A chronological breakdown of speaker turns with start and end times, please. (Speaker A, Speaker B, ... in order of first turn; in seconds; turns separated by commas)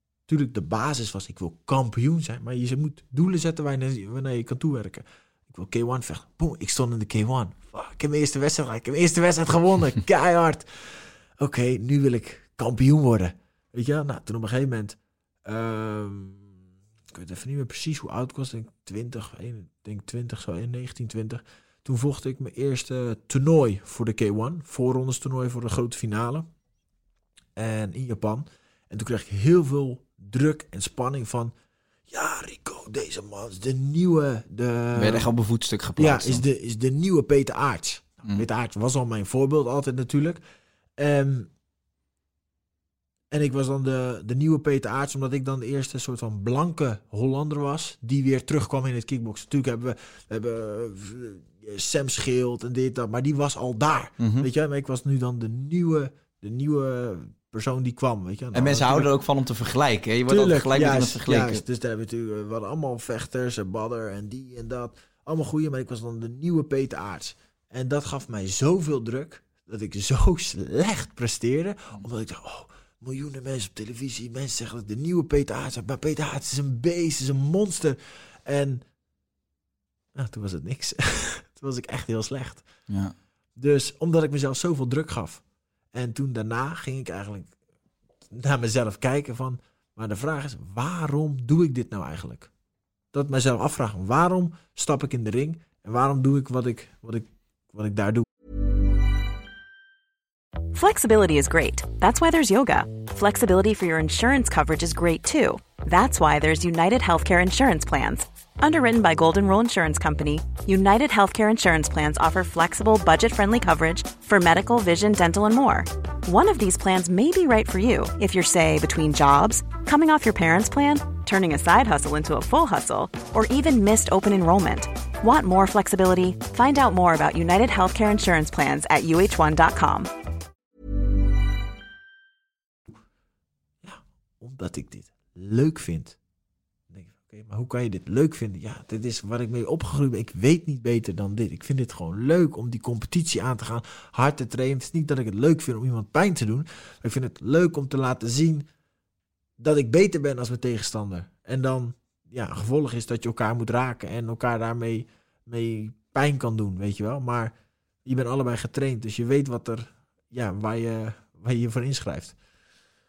Speaker A: 0.3-26.5, Speaker A: 27.6-31.5, Speaker A: 32.1-35.3, Speaker B: 35.0-36.4, Speaker A: 36.0-40.4, Speaker A: 41.0-41.5, Speaker A: 43.3-59.1, Speaker B: 54.2-54.5, Speaker B: 58.5-61.6, Speaker A: 60.3-78.8, Speaker A: 80.1-82.7, Speaker B: 82.9-83.1, Speaker A: 83.5-87.5, Speaker A: 88.3-92.5, Speaker A: 93.1-98.2, Speaker C: 100.7-130.1, Speaker A: 133.8-136.2, Speaker A: 136.9-148.7, Speaker A: 149.6-157.5, Speaker A: 158.0-162.3